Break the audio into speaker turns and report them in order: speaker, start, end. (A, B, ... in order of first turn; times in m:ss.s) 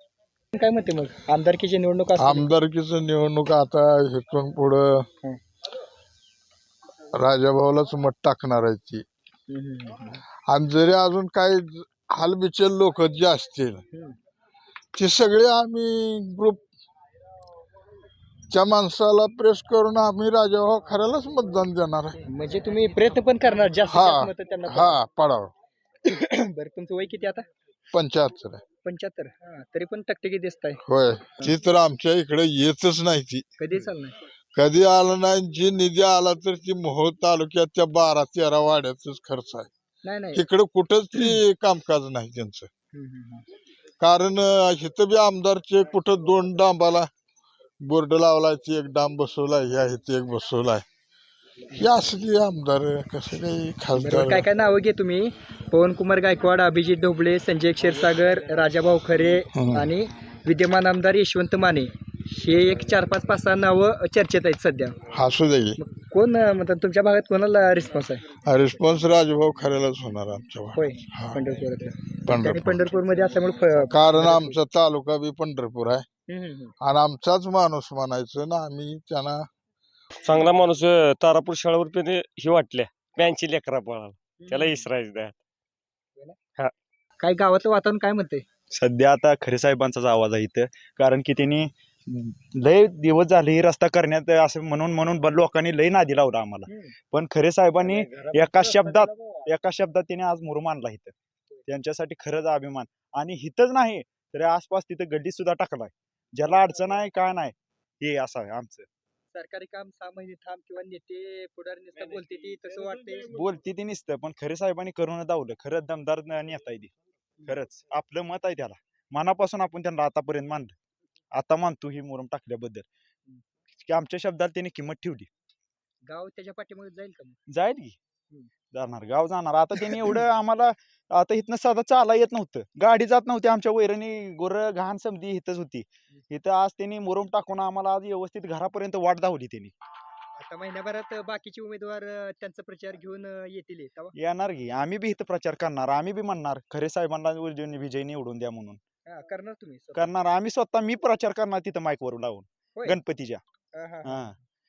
0:00.5-0:02.5 A
0:02.2-0:05.0 B
0:07.2-0:09.0 B
0:09.5-0:10.2 A
0:10.5-0:13.8 B
0:14.9-0:16.6 B
0:18.5-0:22.2 B
0:22.3-0:25.0 A
0:23.9-0:25.5 B
0:26.1-0:27.4 A
0:27.9-0:28.6 B
0:28.8-0:30.8 A
0:30.8-0:33.4 B
0:33.6-0:34.1 A
0:34.5-0:39.7 B
0:40.0-0:40.4 A
0:40.3-0:42.7 B
0:42.9-0:43.4 A
0:44.0-0:47.1 B
0:47.8-0:50.8 B
0:51.8-0:54.4 B
0:54.0-1:05.0 A
0:59.5-0:59.8 B
1:05.1-1:05.8 B
1:05.8-1:08.3 A
1:08.4-1:11.4 B
1:10.7-1:14.6 A
1:12.3-1:12.9 B
1:13.9-1:16.0 B
1:16.3-1:16.7 A
1:16.8-1:19.4 B
1:20.1-1:25.4 C
1:24.4-1:24.7 A
1:27.2-1:28.4 A
1:28.7-1:41.1 D
1:36.7-1:36.9 A
1:41.7-1:48.8 D
1:49.3-1:53.3 A
1:53.3-1:56.9 D
1:57.4-2:00.7 D
2:01.3-2:02.8 D
2:03.8-2:05.3 D
2:06.1-2:07.4 A
2:07.5-2:08.0 D
2:08.7-2:19.7 D
2:20.4-2:24.1 A
2:24.2-2:28.8 D
2:29.1-2:30.1 A
2:29.9-2:33.4 D
2:33.8-2:34.4 A
2:34.1-2:34.4 D